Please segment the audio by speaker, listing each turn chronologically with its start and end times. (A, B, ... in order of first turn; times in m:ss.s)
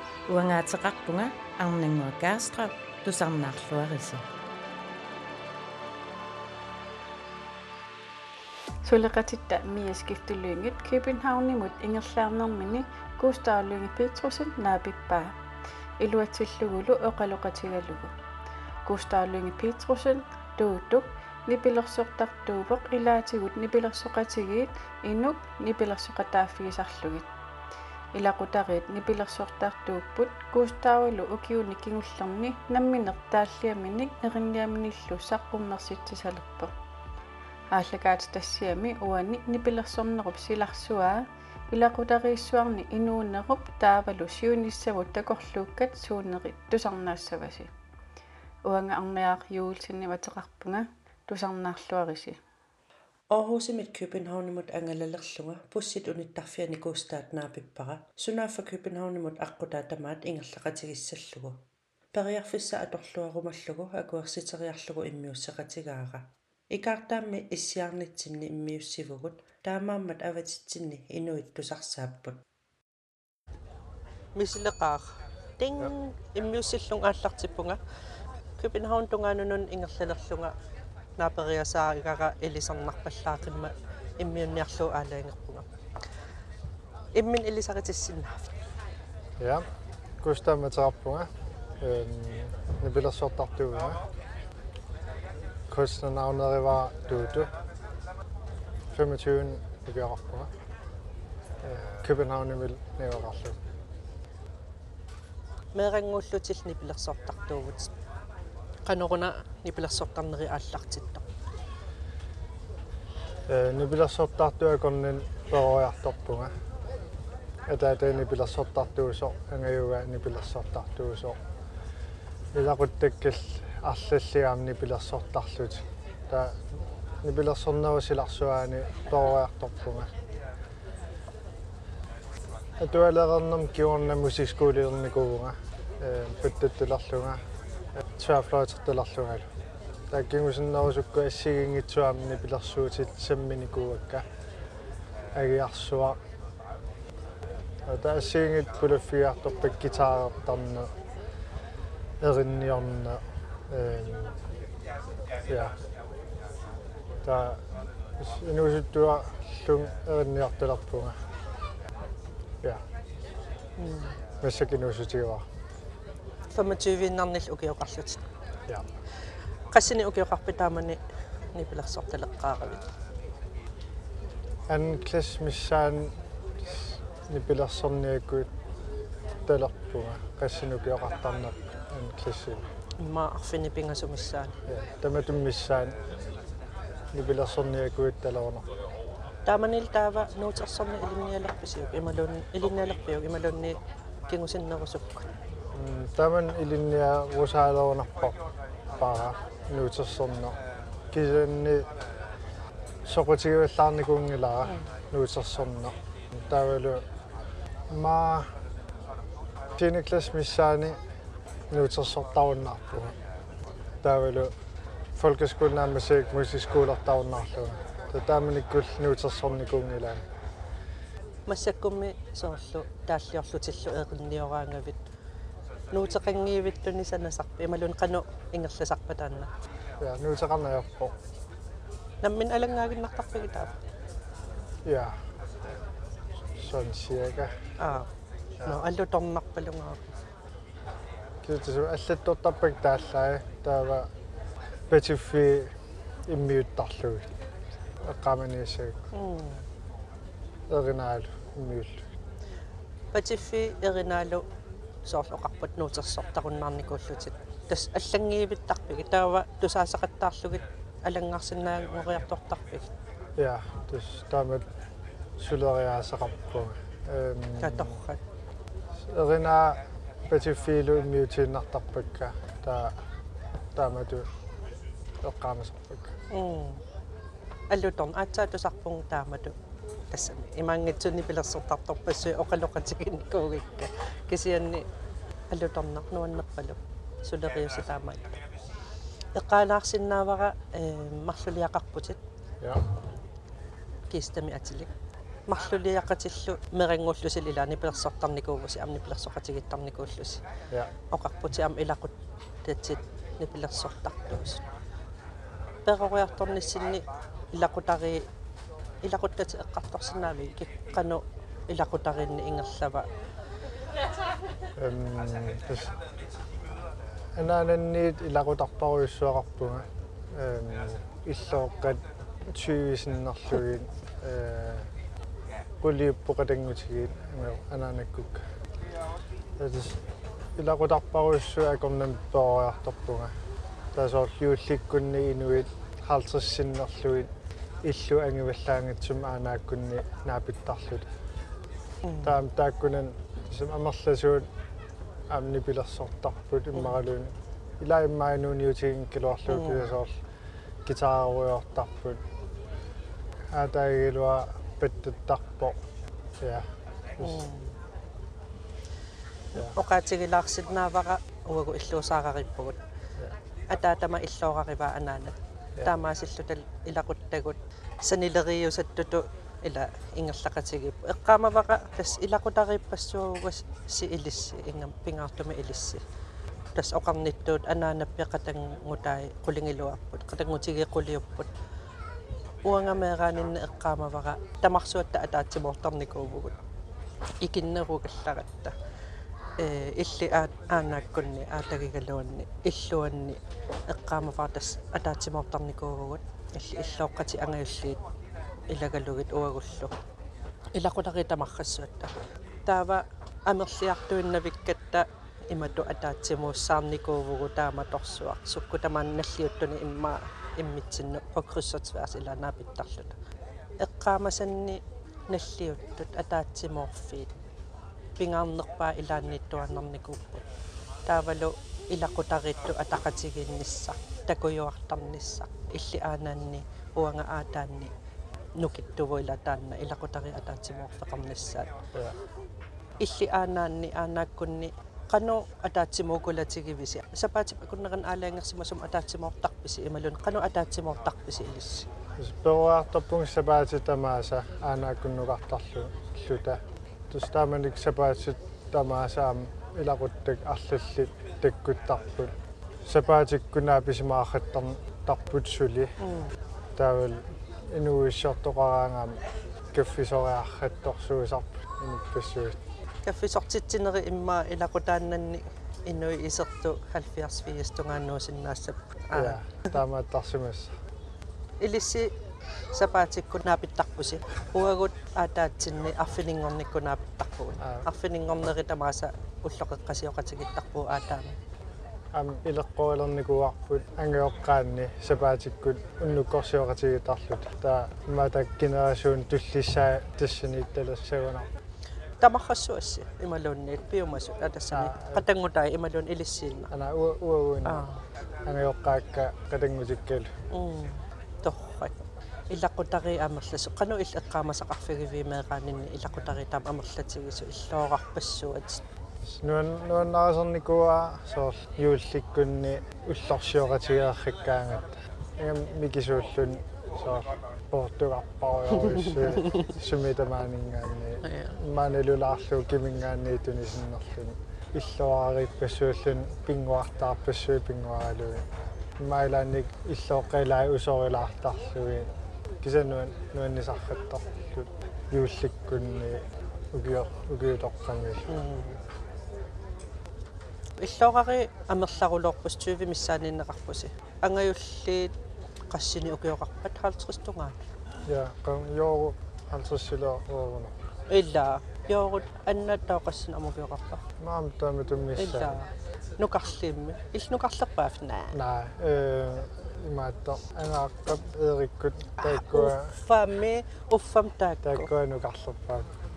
0:00.3-0:04.2 A
0:08.8-0:15.3 B
0:16.0-0:18.1 B
0:18.8-0:27.3 B
0:28.1-0:36.7 B
0:37.7-0:47.7 B
0:48.6-0:52.4 B
0:53.3-1:01.6 C
1:02.1-1:12.4 C
1:14.4-1:17.8 C
1:18.6-1:20.5 C
1:21.2-1:25.7 C
1:27.1-1:28.5 C
1:29.4-1:29.6 D
1:30.2-1:34.0 D
1:35.7-1:37.5 D
1:38.9-1:40.5 D
1:41.6-1:43.6 D
1:45.7-1:47.9 C
1:48.8-1:51.2 C
1:53.5-1:56.5 D
1:57.7-2:01.4 D
2:02.5-2:06.6 D
2:07.2-2:10.1 D
2:12.8-2:17.4 D
2:18.0-2:19.5 D
2:20.1-2:24.2 D
2:25.3-2:26.2 D
2:27.8-2:30.9 D
2:32.2-2:34.4 D
2:35.5-2:35.7 D
2:37.2-2:37.6 D
2:38.2-2:41.2 D
2:43.8-2:44.1 C
2:44.4-2:45.4 D
2:46.5-2:48.2 C
2:49.7-2:51.0 C
2:51.5-2:52.8 C
2:54.7-2:58.5 D
2:59.4-3:02.6 D
3:03.0-3:04.5 C
3:04.7-3:06.0 D
3:07.1-3:08.7 D
3:09.5-3:13.8 C
3:14.3-3:15.2 C
3:15.7-3:18.4 D
3:19.0-3:20.6 D
3:21.1-3:21.9 D
3:23.0-3:27.0 D
3:27.9-3:28.5 D
3:29.8-3:31.0 D
3:31.7-3:33.1 D
3:34.0-3:34.5 D
3:35.2-3:40.2 D
3:41.5-3:45.0 C
3:45.9-3:49.5 C
3:50.0-3:51.1 D
3:52.2-3:53.7 C
3:54.8-3:55.2 D
3:56.5-3:57.5 D
3:57.8-3:58.1 C
3:58.6-4:00.1 C
4:01.4-4:04.1 D
4:04.9-4:05.7 D
4:06.3-4:07.3 D
4:08.0-4:09.0 D
4:09.1-4:09.6 C
4:10.7-4:12.0 D
4:13.1-4:14.4 C
4:15.0-4:22.9 C
4:23.4-4:24.6 D
4:25.4-4:28.0 D
4:27.6-4:28.2 C
4:29.0-4:32.9 D
4:33.7-4:34.3 D
4:35.2-4:36.1 D
4:36.3-4:36.8 C
4:37.7-4:39.6 C
4:40.1-4:44.8 C
4:45.5-4:48.3 C
4:49.3-4:52.2 C
4:54.1-4:54.9 C
4:55.5-5:00.4 C
5:01.1-5:04.6 C
5:05.8-5:08.3 C
5:09.0-5:13.1 C
5:14.8-5:15.9 D
5:17.4-5:24.9 D
5:25.8-5:28.4 D
5:29.6-5:30.0 D
5:30.6-5:33.3 D
5:33.9-5:37.3 D
5:37.8-5:41.1 D
5:42.0-5:42.4 C
5:42.2-5:44.5 D
5:45.3-5:50.2 D
5:49.5-5:49.9 C
5:50.8-5:52.2 D
5:53.5-5:55.8 D
5:56.4-5:57.4 D
5:57.2-5:57.7 C
5:59.5-6:02.8 C
6:03.7-6:16.0 C
6:16.7-6:21.5 C
6:22.6-6:26.6 C
6:27.4-6:28.7 C
6:29.6-6:38.0 C
6:38.7-6:39.9 C
6:40.7-6:42.1 C
6:42.6-6:53.2 C
6:53.8-6:57.3 C
6:58.2-7:00.4 C
7:01.0-7:07.9 C
7:08.6-7:11.8 C
7:13.0-7:21.9 C
7:22.2-7:32.3 D
7:32.8-7:35.9 D
7:36.0-7:36.3 C
7:36.8-7:39.2 D
7:39.7-7:42.6 D
7:43.0-7:49.4 C
7:49.1-7:50.7 D
7:51.6-7:52.1 C
7:52.7-8:01.3 C
7:57.6-7:57.8 D
8:02.1-8:11.5 D
8:12.2-8:16.7 C
8:14.7-8:15.2 D
8:16.7-8:17.8 D
8:17.6-8:18.0 C
8:18.4-8:20.3 D
8:20.5-8:28.8 C
8:29.2-8:48.4 D
8:38.9-8:39.7 C
8:41.2-8:41.6 C
8:49.0-8:52.1 D
8:52.6-8:58.3 D
8:58.3-8:58.8 C
9:00.8-9:05.1 C
9:05.7-9:07.6 C
9:08.1-9:10.8 D
9:11.1-9:14.0 C
9:14.2-9:15.6 D
9:15.2-9:15.7 C
9:16.2-9:18.4 C
9:18.3-9:22.9 D
9:22.2-9:24.9 C
9:24.6-9:25.9 D